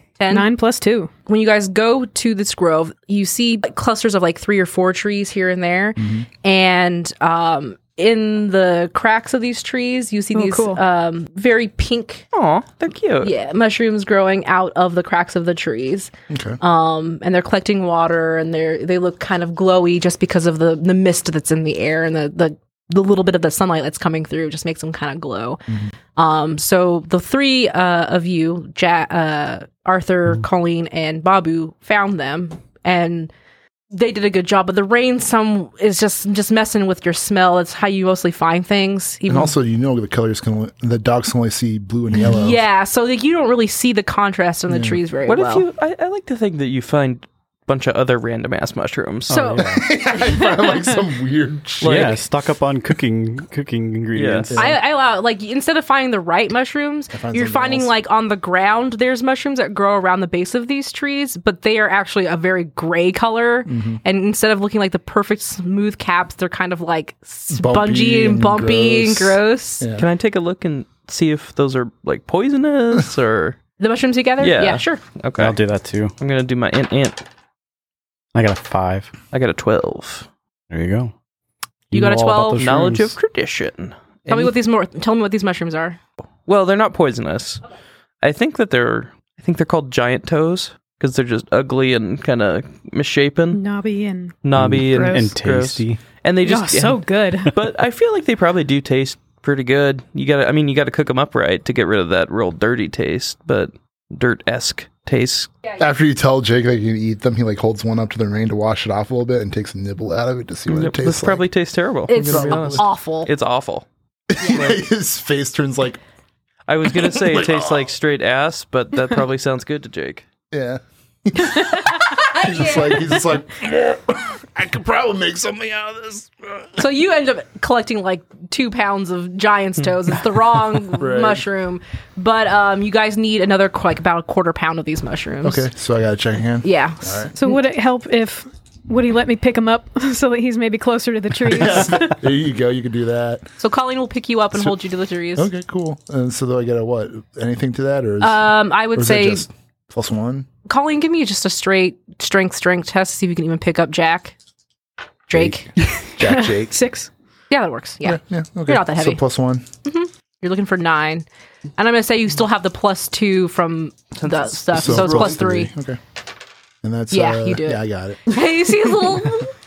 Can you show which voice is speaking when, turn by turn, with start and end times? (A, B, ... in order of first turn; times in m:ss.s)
0:00.2-0:00.5 A
0:00.3-0:01.1 B
0:01.3-0:12.2 A
0:06.0-0:06.2 C
0:10.3-0:10.8 B
0:12.3-0:13.3 D
0:13.2-0:33.3 A
0:16.3-0:16.6 C
0:33.9-0:39.5 A
0:39.3-0:42.6 C
0:42.2-0:45.6 A
0:44.7-0:45.0 C
0:45.3-0:49.4 D
0:49.3-0:49.9 E
0:49.3-0:50.9 A
0:49.7-0:52.2 C
0:51.8-0:52.2 D
0:51.8-0:54.7 E
0:54.1-0:54.5 D
0:54.6-1:09.9 A
0:57.1-0:57.9 C
1:03.7-1:04.0 C
1:07.5-1:10.1 C
1:10.0-1:13.6 D
1:13.8-1:15.0 A
1:14.4-1:15.6 D
1:15.4-1:16.1 E
1:16.2-1:17.2 D
1:18.3-1:19.1 E
1:19.3-1:20.3 D
1:20.7-1:21.1 E
1:21.9-1:23.2 E
1:21.9-1:22.7 A
1:22.6-1:24.5 D
1:24.3-1:26.0 A
1:26.5-1:27.6 D
1:28.2-1:33.6 D
1:33.5-1:34.4 B
1:34.4-1:45.5 D
1:34.5-1:36.0 E
1:34.9-1:35.3 B
1:36.4-1:37.5 B
1:45.8-1:51.4 C
1:50.7-1:53.8 D
1:52.1-1:53.3 A
1:52.2-1:52.8 C
1:54.3-1:56.0 C
1:54.4-1:54.8 A
1:56.7-2:00.2 D
1:56.9-1:57.9 C
2:00.5-2:06.8 C
2:01.9-2:03.0 A
2:06.8-2:15.7 A
2:10.9-2:11.4 C
2:15.4-2:17.3 C
2:16.6-2:17.5 A
2:17.3-2:22.2 B
2:21.4-2:23.5 C
2:23.6-2:25.5 A
2:25.4-2:30.5 C
2:28.2-2:29.5 A
2:30.6-2:34.3 A
2:35.3-2:35.7 A
2:35.3-2:36.8 C
2:36.2-2:37.1 B
2:37.5-2:39.2 A
2:38.0-2:39.6 C
2:39.8-2:45.7 A
2:44.2-2:45.3 D
2:44.7-2:46.0 C
2:46.8-2:48.4 C
2:47.1-2:49.5 A